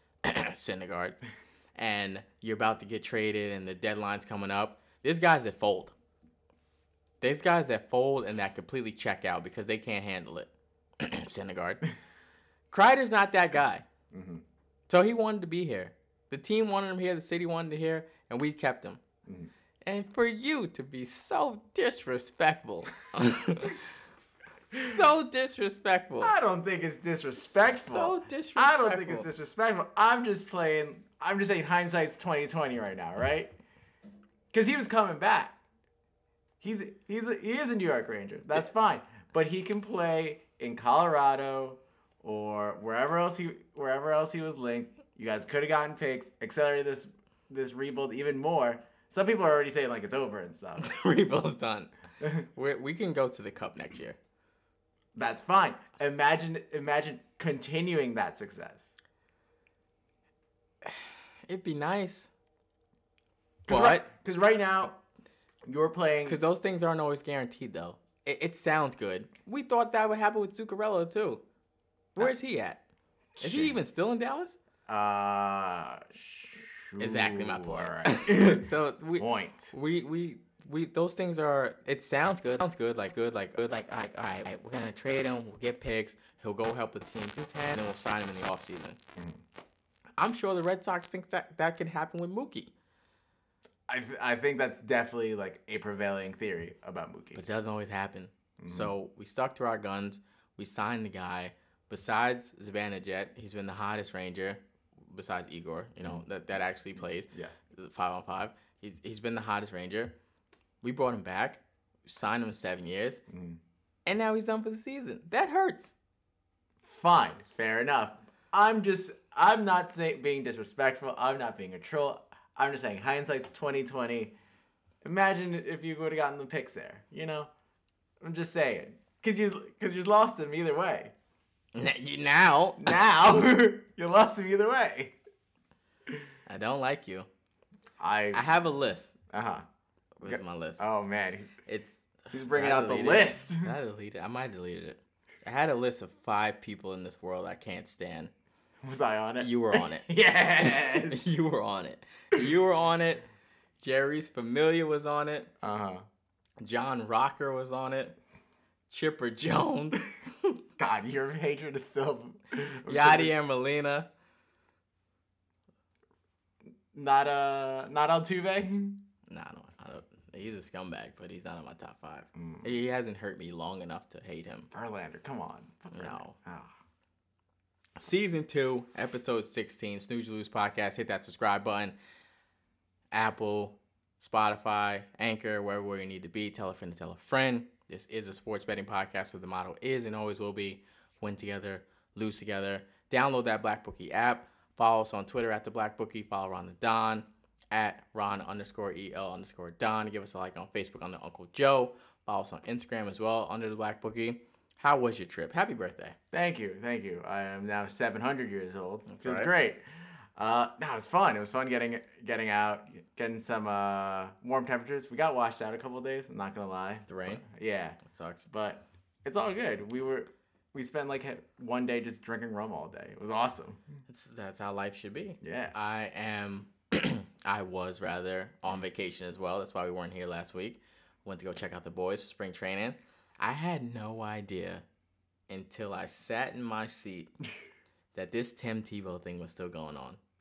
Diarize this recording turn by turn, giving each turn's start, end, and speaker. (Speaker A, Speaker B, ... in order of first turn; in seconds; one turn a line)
Speaker A: 0.2-1.2
Speaker A: 1.8-6.0
Speaker A: 7.2-11.8
Speaker A: 12.7-13.9
Speaker B: 14.1-14.4
Speaker A: 14.9-19.0
Speaker A: 19.9-23.9
Speaker A: 24.7-26.3
Speaker B: 26.2-33.6
Speaker A: 27.5-29.3
Speaker B: 34.5-35.6
Speaker B: 36.6-50.9
Speaker A: 50.8-54.2
Speaker B: 55.1-58.9
Speaker A: 60.8-62.3
Speaker A: 63.7-64.1
Speaker B: 63.7-65.0
Speaker B: 65.7-66.4
Speaker A: 66.2-71.4
Speaker A: 72.2-72.8
Speaker B: 73.4-73.8
Speaker A: 73.4-74.6
Speaker B: 74.9-78.7
Speaker A: 77.0-89.0
Speaker B: 79.2-79.7
Speaker B: 89.2-89.4
Speaker A: 90.2-92.7
Speaker B: 93.9-97.4
Speaker A: 97.3-110.2
Speaker B: 98.6-98.9
Speaker B: 107.3-107.5
Speaker A: 110.8-113.2
Speaker B: 113.3-113.6
Speaker A: 114.1-115.9
Speaker B: 116.8-124.4
Speaker B: 125.0-127.5
Speaker B: 128.2-131.1
Speaker A: 131.8-132.9
Speaker B: 132.8-135.2
Speaker A: 136.5-137.3
Speaker B: 138.0-138.4
Speaker A: 138.3-139.2
Speaker B: 139.3-139.7
Speaker A: 140.2-140.9
Speaker B: 140.2-141.6
Speaker A: 141.7-148.3
Speaker B: 142.3-143.8
Speaker B: 148.8-151.3
Speaker A: 149.4-150.1
Speaker A: 150.6-153.2
Speaker A: 153.8-155.5
Speaker B: 155.6-156.1
Speaker A: 156.6-158.2
Speaker A: 158.9-160.6
Speaker B: 160.8-163.3
Speaker A: 162.9-164.1
Speaker B: 166.9-169.0
Speaker A: 169.3-174.7
Speaker B: 172.3-172.7
Speaker B: 174.7-176.7
Speaker A: 175.9-176.4
Speaker A: 178.0-182.0
Speaker A: 183.1-206.2
Speaker B: 206.3-223.8
Speaker A: 209.1-209.5
Speaker A: 217.1-217.4
Speaker A: 218.0-218.5
Speaker A: 224.1-234.8
Speaker B: 225.4-225.8
Speaker A: 235.5-237.3
Speaker A: 238.1-240.2